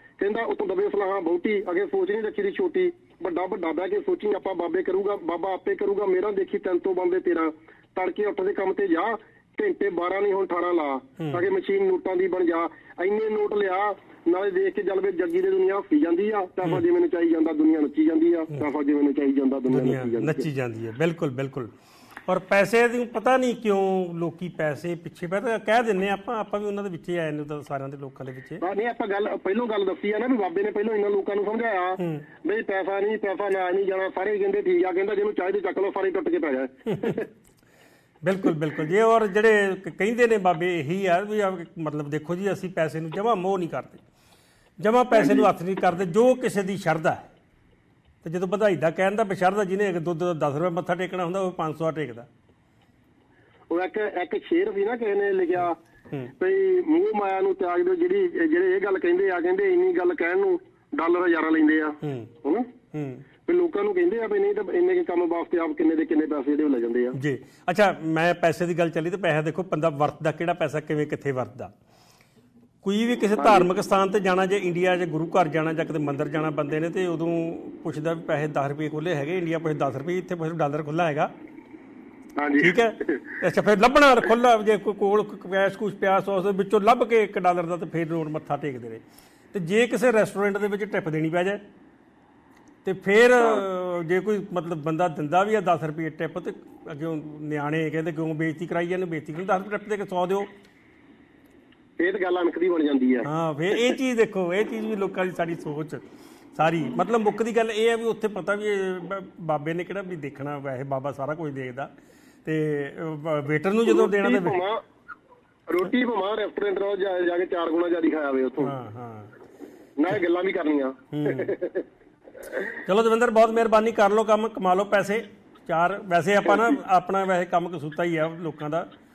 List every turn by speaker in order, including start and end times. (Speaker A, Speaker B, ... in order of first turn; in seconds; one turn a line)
Speaker A: 0.2-20.5
Speaker B: 11.2-11.4
Speaker B: 19.7-21.7
Speaker B: 22.3-28.6
Speaker A: 28.6-37.2
Speaker B: 32.0-32.2
Speaker B: 36.9-37.2
Speaker B: 38.2-44.0
Speaker B: 44.8-47.3
Speaker A: 45.1-45.4
Speaker B: 48.2-52.3
Speaker A: 53.7-55.8
Speaker A: 56.4-62.7
Speaker B: 62.0-62.3
Speaker B: 62.9-63.2
Speaker A: 63.5-67.2
Speaker B: 67.1-71.7
Speaker B: 72.8-81.3
Speaker A: 73.4-73.7
Speaker A: 82.4-83.2
Speaker B: 82.6-91.6
Speaker B: 92.8-100.5
Speaker A: 102.0-103.9
Speaker B: 103.2-106.0
Speaker B: 106.5-111.9
Speaker B: 112.4-114.6
Speaker A: 113.8-114.8
Speaker A: 115.7-118.7
Speaker B: 118.6-119.3
Speaker A: 120.0-121.8
Speaker B: 121.1-121.5
Speaker B: 122.8-128.9